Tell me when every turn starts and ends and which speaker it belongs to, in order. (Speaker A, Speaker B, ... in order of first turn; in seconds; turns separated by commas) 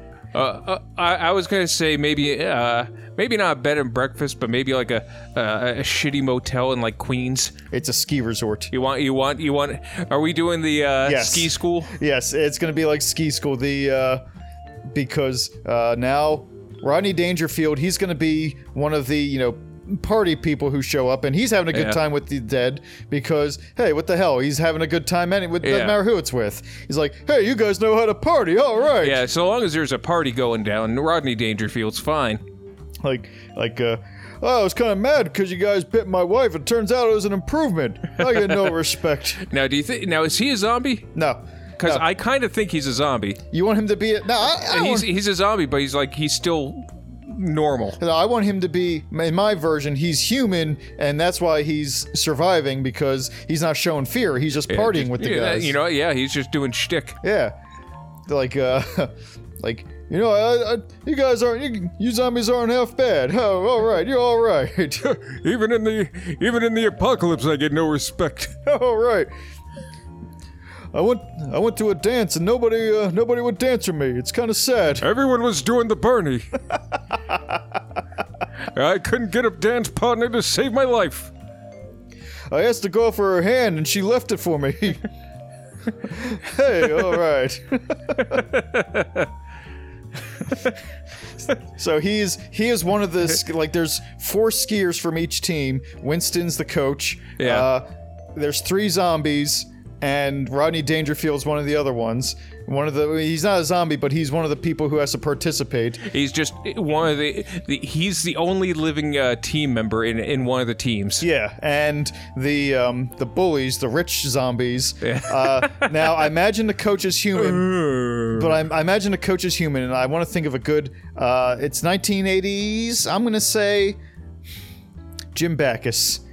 Speaker A: 0.3-7.6, Speaker B: 7.7-8.7, Speaker A: 8.7-11.9, Speaker B: 11.0-14.2, Speaker B: 14.9-29.2, Speaker A: 21.7-22.0, Speaker A: 25.6-26.0, Speaker A: 29.0-32.4, Speaker B: 33.0-39.4, Speaker A: 39.4-41.1, Speaker B: 41.1-42.0, Speaker A: 41.8-43.4, Speaker B: 43.5-45.1, Speaker A: 44.5-48.0, Speaker B: 48.0-55.8, Speaker A: 54.7-57.2, Speaker B: 57.2-57.5, Speaker B: 58.3-65.1, Speaker A: 65.0-68.6, Speaker B: 68.7-69.3, Speaker B: 70.9-75.0, Speaker A: 75.0-76.5, Speaker B: 77.3-77.6, Speaker A: 78.6-81.3, Speaker B: 82.5-85.0, Speaker B: 86.0-88.4, Speaker A: 88.2-89.3, Speaker B: 91.7-106.0, Speaker A: 97.4-97.7, Speaker A: 106.0-111.2, Speaker B: 111.2-117.7, Speaker A: 115.0-116.3, Speaker A: 117.3-118.6, Speaker B: 118.3-124.0, Speaker B: 125.3-126.2